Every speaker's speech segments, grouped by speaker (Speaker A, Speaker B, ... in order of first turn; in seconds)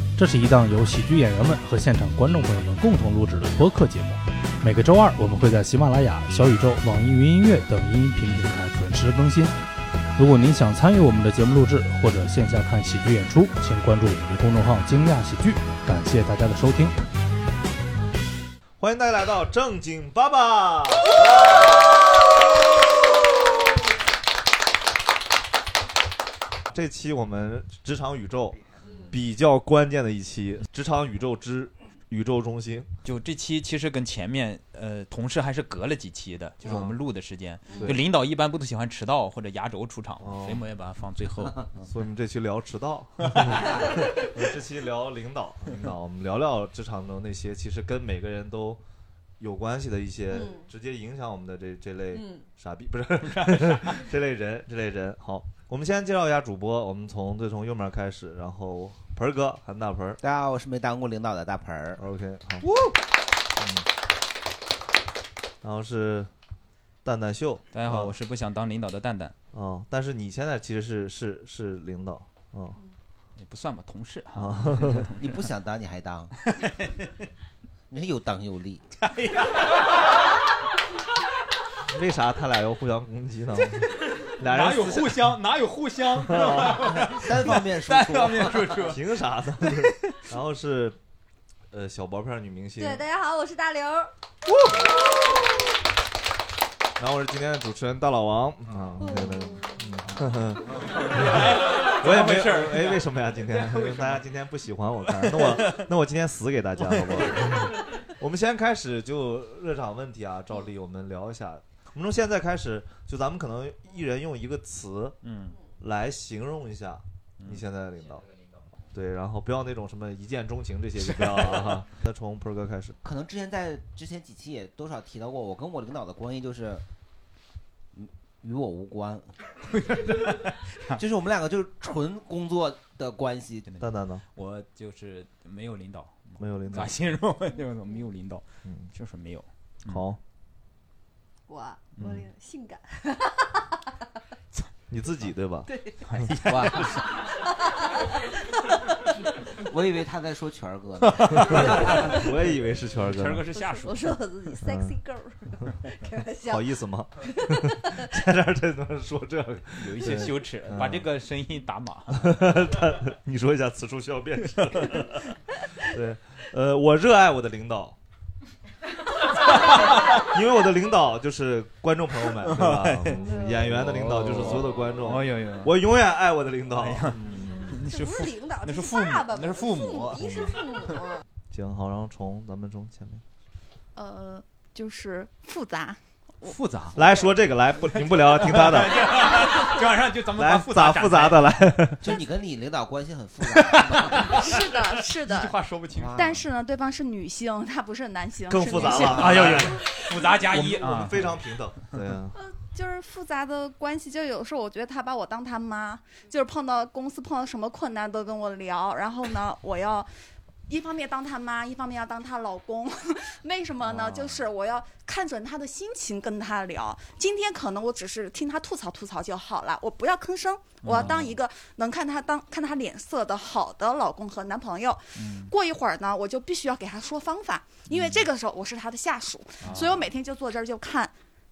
Speaker A: 0.2-9.6, 10.2-16.9
Speaker B: 18.8-21.8, 26.7-28.6, 29.1-32.9, 36.7-37.0, 40.2-40.6, 41.9-48.8, 49.4-60.2, 62.0-62.7, 63.6-63.9, 65.6-66.3, 67.0-68.1, 69.5-72.8, 74.3-75.1, 81.9-85.3, 86.3-87.0, 88.8-91.0, 91.7-93.0, 97.0-115.2, 115.8-118.3, 118.9-123.0, 133.8-134.2, 136.4-137.0, 139.9-140.2, 144.9-145.7, 151.5-153.5, 154.6-155.0, 156.3-161.1, 162.1-168.0, 170.1-177.8, 181.5-183.2, 186.9-189.7, 190.4-192.1, 198.5-199.8, 200.4-202.3
Speaker C: 33.0-41.7, 43.2-43.6, 53.3-54.0, 67.7-69.3, 73.4-75.4, 76.6-77.1, 79.0-79.8, 84.2-89.0, 100.9-104.2, 105.2-105.8, 107.0-107.5, 115.2-115.6, 121.0-121.7, 129.7-131.0, 133.7-140.0, 142.0-142.2, 146.1-147.0, 151.3-152.1, 153.0-154.2, 159.8-162.4, 172.4-175.7, 176.8-180.6, 186.4-191.6, 193.6-196.3, 198.9-201.3, 220.8-221.3, 225.2-225.5, 229.6-230.1
Speaker D: 50.3-50.6, 52.1-52.4, 92.8-94.1, 99.0-99.8, 141.5-143.5, 145.7-146.0, 153.5-158.1, 173.2-173.5, 177.8-181.2
Speaker E: 60.2-62.0, 75.2-76.3, 77.9-78.8, 87.0-88.8, 123.0-126.8, 127.9-129.3, 130.9-133.7, 146.4-147.0, 149.6-152.1, 192.0-194.4, 196.0-196.3, 213.9-214.4
Speaker F: 184.0-186.5, 194.3-200.2, 202.4-210.1, 210.7-231.1